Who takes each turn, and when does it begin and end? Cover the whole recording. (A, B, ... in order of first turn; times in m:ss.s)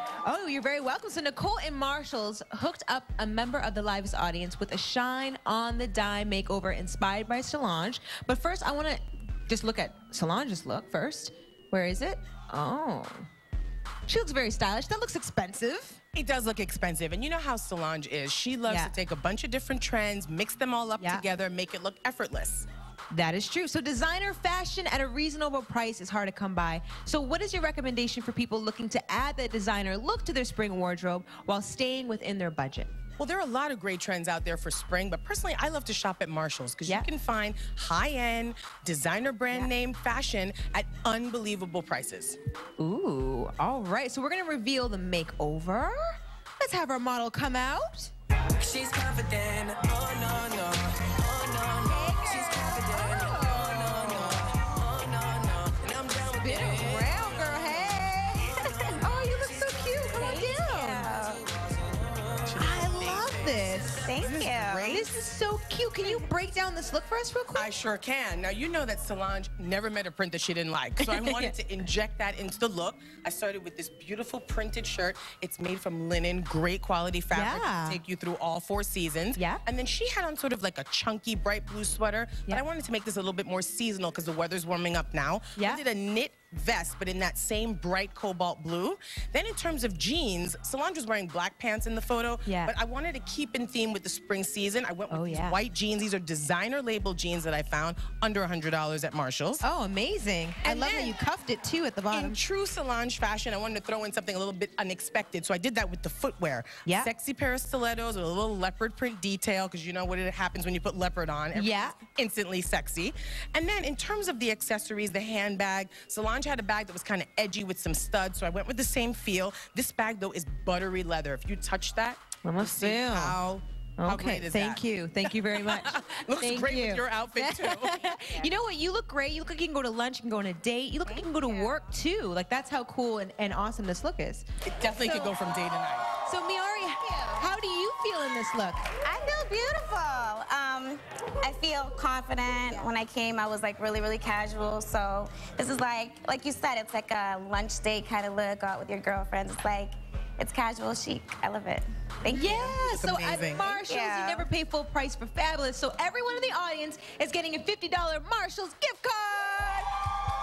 0:00.2-0:13.3 A
0:14.1-0:16.0 A
0:16.1-0:22.7 B
0:18.6-0:18.9 A
0:21.0-0:21.2 A
0:23.1-0:32.9 A
0:33.2-0:42.4 B
0:42.8-0:48.1 A
0:48.6-1:00.4 B
0:51.8-0:54.4 A
0:56.4-1:01.1 A
1:00.1-1:01.4 C
1:02.4-1:05.2 B
1:02.6-1:04.2 A
1:04.1-1:04.9 C
1:04.8-1:07.7 A
1:07.6-1:39.6 B
1:11.0-1:11.5 A
1:17.3-1:18.0 A
1:19.4-1:19.6 A
1:25.6-1:25.8 A
1:32.5-1:32.7 A
1:35.1-1:35.6 A
1:39.6-1:42.4 A
1:40.6-1:41.2 B
1:42.1-2:08.2 B
1:51.6-1:52.0 A
2:02.4-2:03.4 A
2:04.0-2:15.3 A
2:11.0-2:11.8 C
2:14.6-2:16.1 B
2:16.3-2:18.9 A
2:19.0-2:32.8 C
2:32.3-2:39.9 A
2:32.8-2:33.7 B
2:33.8-2:34.5 C